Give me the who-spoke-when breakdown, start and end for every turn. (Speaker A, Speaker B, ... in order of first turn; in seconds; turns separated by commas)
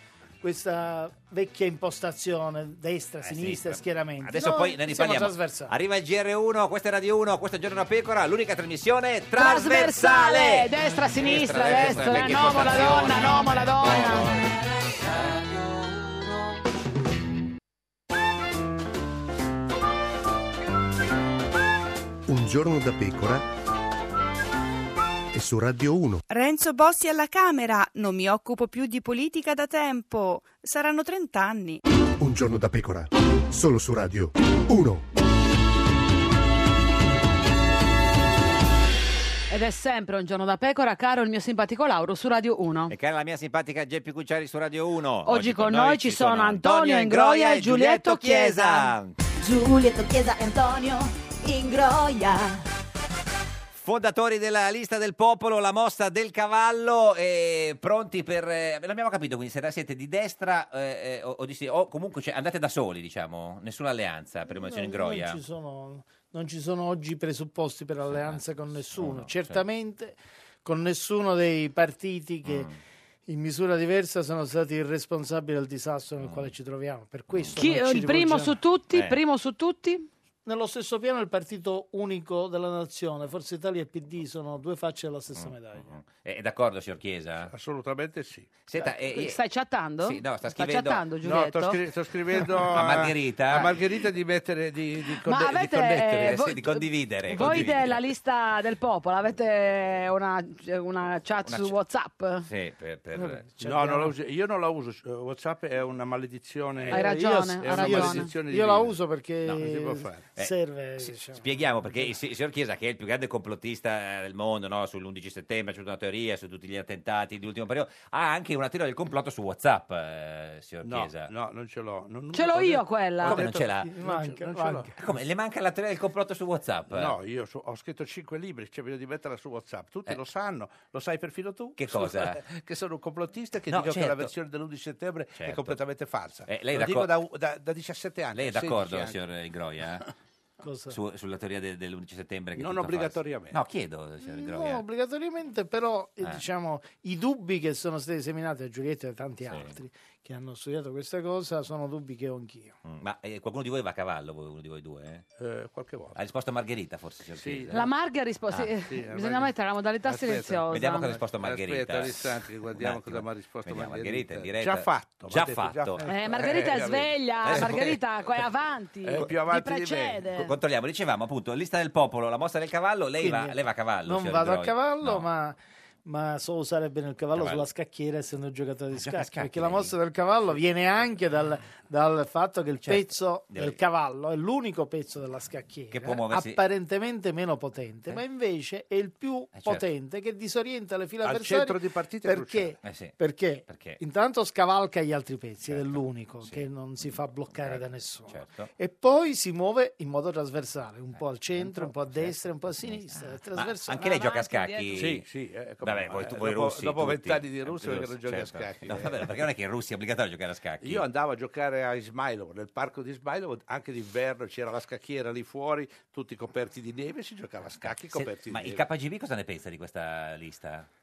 Speaker A: 0.4-5.7, Speaker B: 3.2-14.5, Speaker C: 9.3-14.3, Speaker D: 12.0-12.5, Speaker E: 22.3-23.4, Speaker E: 25.3-26.2, Speaker F: 26.3-31.8, Speaker E: 32.2-35.1, Speaker C: 39.5-43.0, Speaker B: 42.9-49.2, Speaker C: 45.2-49.0, Speaker G: 49.4-52.6, Speaker B: 53.7-65.4, Speaker A: 64.5-72.7, Speaker B: 68.1-68.4, Speaker B: 69.0-69.6, Speaker B: 72.5-72.8, Speaker A: 73.3-78.6, Speaker B: 76.2-76.5, Speaker C: 77.6-80.1, Speaker B: 78.9-79.2, Speaker A: 80.5-86.0, Speaker B: 85.3-87.5, Speaker D: 87.5-88.7, Speaker B: 88.7-89.4, Speaker C: 89.1-91.8, Speaker B: 90.0-91.1, Speaker D: 91.2-96.4, Speaker B: 92.7-93.8, Speaker C: 95.2-102.5, Speaker B: 96.2-98.0, Speaker D: 97.4-97.8, Speaker B: 101.4-101.8, Speaker B: 102.4-103.5, Speaker A: 103.5-104.2, Speaker D: 103.6-110.3, Speaker C: 106.9-108.3, Speaker A: 106.9-112.1, Speaker B: 110.4-121.3, Speaker D: 120.8-124.9, Speaker C: 122.3-123.4, Speaker B: 123.2-123.9, Speaker A: 123.8-124.9, Speaker B: 125.0-127.2, Speaker D: 126.9-139.2, Speaker B: 131.8-132.4, Speaker B: 133.7-134.3, Speaker B: 135.4-135.8, Speaker B: 136.5-137.1, Speaker B: 138.3-140.1, Speaker A: 140.6-141.0, Speaker B: 140.9-144.8, Speaker D: 142.6-143.6, Speaker A: 144.2-152.8, Speaker B: 149.5-149.7, Speaker B: 152.8-155.2, Speaker D: 155.4-156.2, Speaker B: 156.2-157.8, Speaker D: 157.3-157.9, Speaker C: 157.7-161.2, Speaker D: 158.8-159.5, Speaker D: 160.1-160.7, Speaker B: 160.7-166.0, Speaker D: 161.2-168.0, Speaker C: 166.0-170.5, Speaker B: 167.5-167.9, Speaker D: 169.0-170.3, Speaker B: 170.4-175.3, Speaker A: 173.2-204.1, Speaker B: 177.3-177.7, Speaker B: 178.9-179.9, Speaker B: 182.8-183.8, Speaker B: 185.9-186.6, Speaker B: 189.6-189.8, Speaker D: 191.2-192.8, Speaker B: 192.8-194.0, Speaker B: 195.7-198.7, Speaker B: 202.8-205.2, Speaker C: 203.9-205.0, Speaker D: 204.9-209.4, Speaker B: 205.8-211.1, Speaker D: 210.8-218.8, Speaker B: 217.8-220.9